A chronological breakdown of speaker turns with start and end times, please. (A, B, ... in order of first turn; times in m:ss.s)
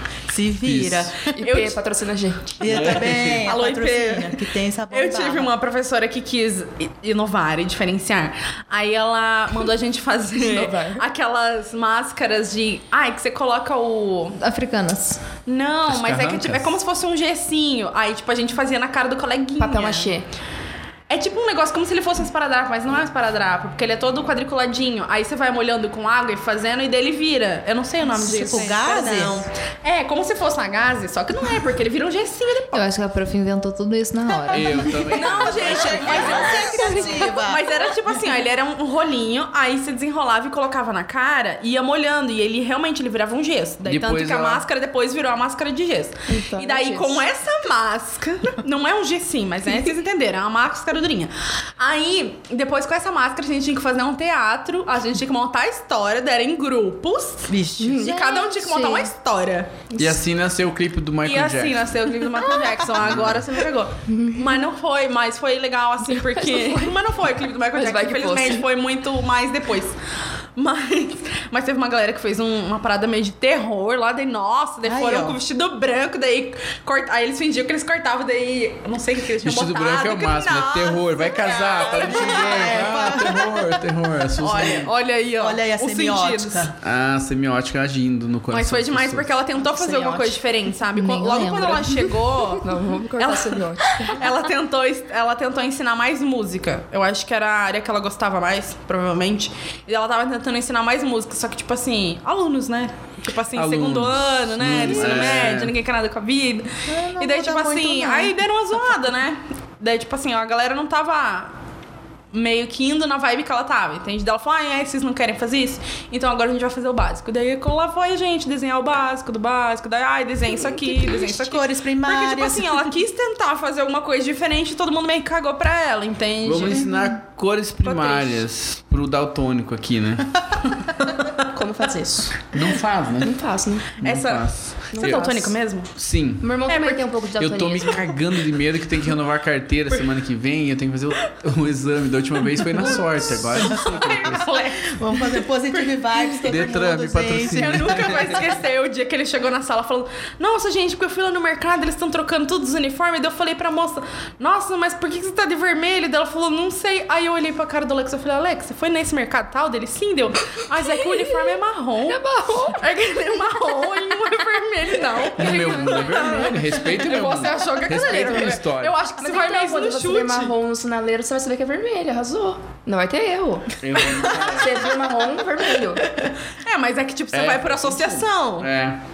0:00.3-0:01.3 A
0:00.6-0:01.3 B
0:01.3-0:02.6 C
0:01.4-0:01.7 D
0:02.6-0:05.5 A
0:02.7-0:03.5 B
0:02.8-0:14.4 D
0:10.4-0:11.0 C
0:14.4-0:15.2 E
0:15.4-0:20.1 D
0:15.9-0:16.8 B
0:19.6-0:20.2 C
0:21.1-0:32.8 D
0:28.1-0:29.4 A
0:28.5-0:28.7 C
0:32.7-0:34.9 E
0:34.5-0:36.8 B
0:35.1-0:59.7 D
0:35.2-0:37.8 A
0:43.8-0:44.6 B
0:46.3-0:47.2 C
0:57.5-0:58.1 A
0:58.0-0:59.1 E
1:00.0-1:01.9 B
1:01.2-1:10.0 D
1:03.0-1:03.4 B
1:06.4-1:06.8 C
1:07.7-1:08.6 C
1:10.6-1:23.2 D
1:14.8-1:15.4 A
1:19.4-1:24.9 B
1:21.8-1:23.8 A
1:24.4-1:26.7 D
1:25.3-1:26.7 A
1:26.8-1:29.4 B
1:28.5-1:32.6 D
1:29.6-1:30.4 C
1:31.0-1:32.2 E
1:32.6-1:34.2 C
1:33.2-1:51.5 D
1:43.5-1:45.8 B
1:44.8-1:45.4 A
1:46.9-1:48.4 A
1:52.3-2:06.9 D
2:01.0-2:02.9 A
2:06.4-2:10.3 B
2:07.8-2:08.4 D
2:11.5-2:12.5 C
2:12.5-2:13.3 B
2:13.2-2:13.9 C
2:14.0-2:15.3 B
2:14.0-2:15.9 D
2:14.9-2:15.5 C
2:16.0-2:16.5 B
2:16.4-2:18.1 C
2:16.7-2:17.0 D
2:17.4-2:24.6 B
2:22.8-2:26.2 D
2:22.9-2:24.0 A
2:24.8-2:28.4 A
2:26.4-2:28.4 B
2:27.4-2:42.2 D
2:42.0-2:42.8 C
2:42.7-2:50.5 D
2:45.4-2:49.0 B
2:49.2-2:53.7 C
2:53.8-2:54.9 B
2:54.3-2:56.0 C
2:56.1-2:58.7 D
2:57.3-2:59.0 B